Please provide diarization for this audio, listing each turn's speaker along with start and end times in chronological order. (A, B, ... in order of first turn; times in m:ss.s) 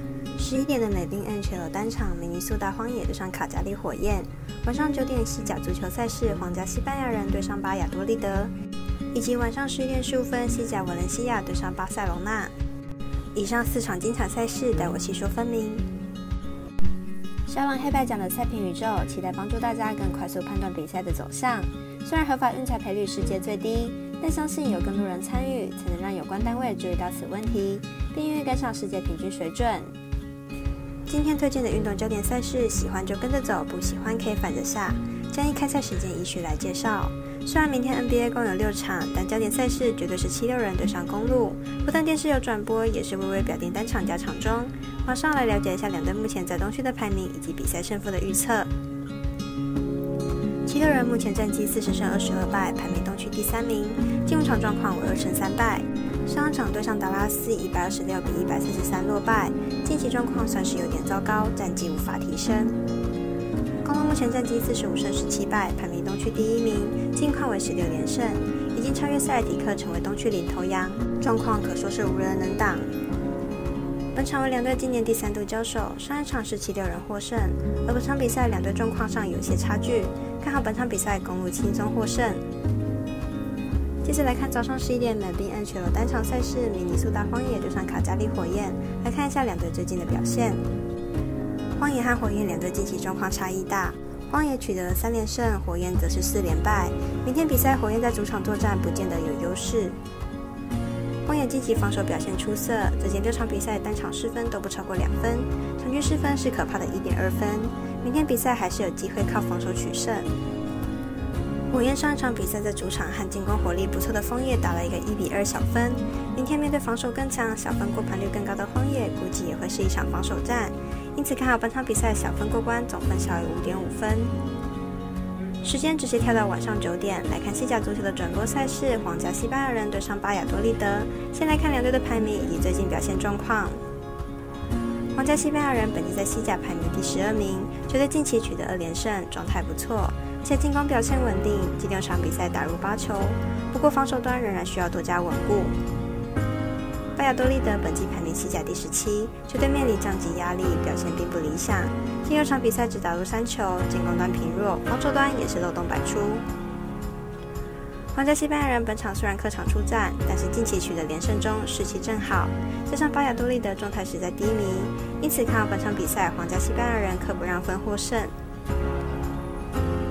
0:00.4-0:08.5 A
0:09.1-0:12.5 A
0:13.4-0:15.9 A
0:17.5-0:29.9 A
0:31.1-0:48.7 A
0:50.6-1:02.8 A
1:03.8-1:12.9 A
1:14.2-1:22.4 A
1:24.0-1:30.6 A
1:31.8-1:40.0 A
1:41.3-1:50.3 A
1:51.7-2:04.3 A
2:05.6-2:13.8 A
2:15.2-2:25.8 A
2:27.2-2:36.4 A
2:38.1-2:48.3 A